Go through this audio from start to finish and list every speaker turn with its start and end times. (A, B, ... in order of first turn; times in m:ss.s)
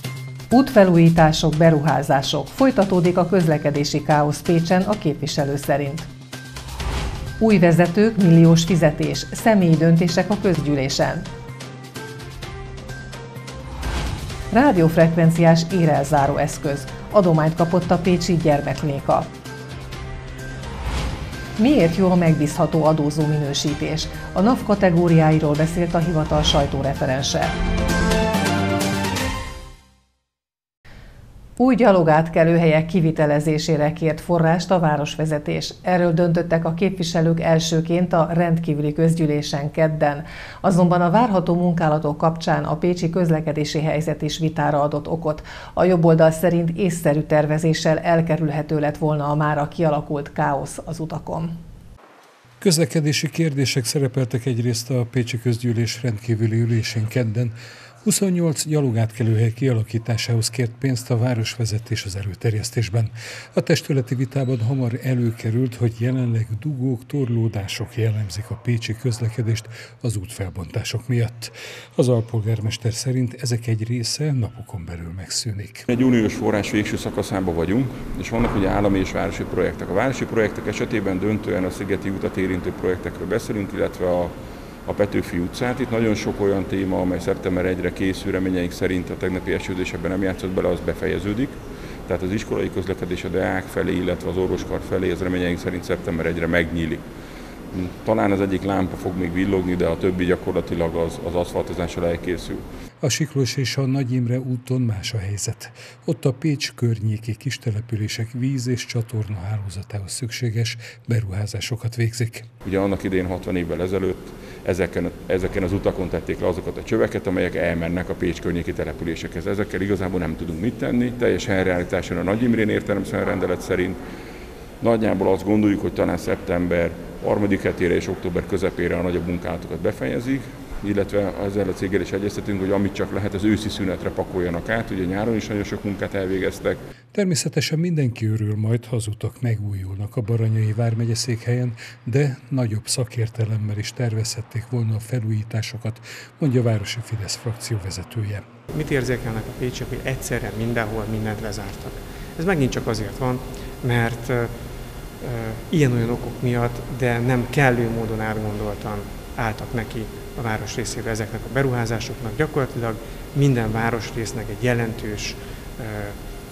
0:00.5-0:06.1 A
0:07.4-0:11.3 A
0:14.5-0:19.3 A
0:21.6-0:27.6 A
0:31.6-0:51.6 A
0:52.6-1:15.8 B
1:15.9-1:37.0 C
1:37.7-1:42.6 C
1:43.0-1:52.5 B
1:52.6-2:04.0 C
2:04.8-2:16.8 C
2:17.1-2:28.5 B
2:28.7-2:34.6 D
2:35.2-2:46.2 D